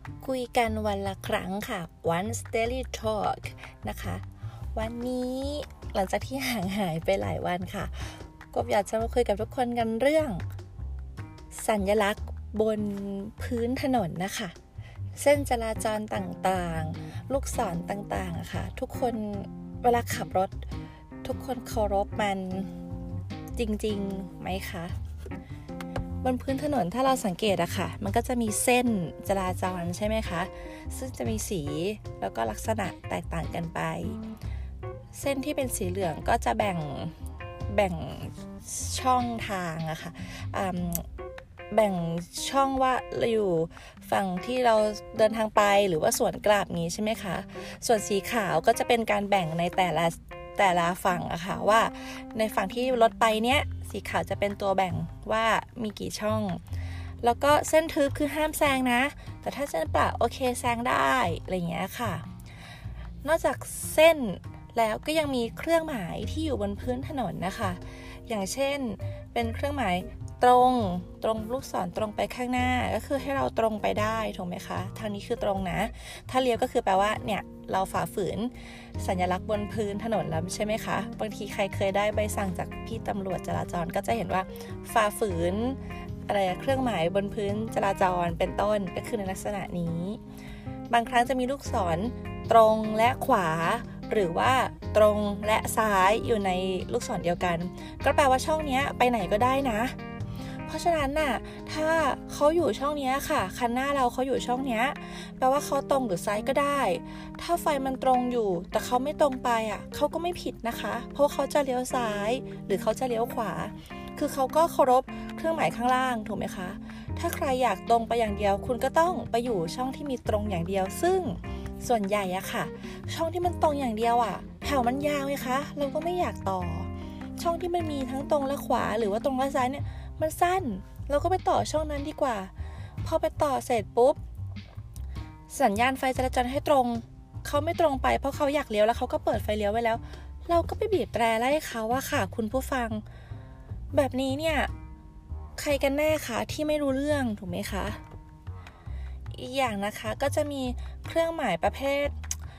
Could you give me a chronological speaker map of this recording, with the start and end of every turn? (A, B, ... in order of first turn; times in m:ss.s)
0:00.2-0:10.4 A
0:11.5-0:14.6 A
0:15.2-0:20.6 A
0:21.2-0:22.7 A
0:23.5-0:24.9 A
0:26.2-0:34.2 A
0:35.1-0:37.2 A
0:37.7-0:41.0 A
0:41.7-0:56.6 A
0:57.2-1:02.2 A
1:03.2-1:30.2 A
1:30.9-1:40.0 A
1:40.6-2:14.2 A
2:15.5-2:23.0 A
2:23.9-2:24.7 A
2:25.6-2:28.0 A
2:29.3-2:32.2 A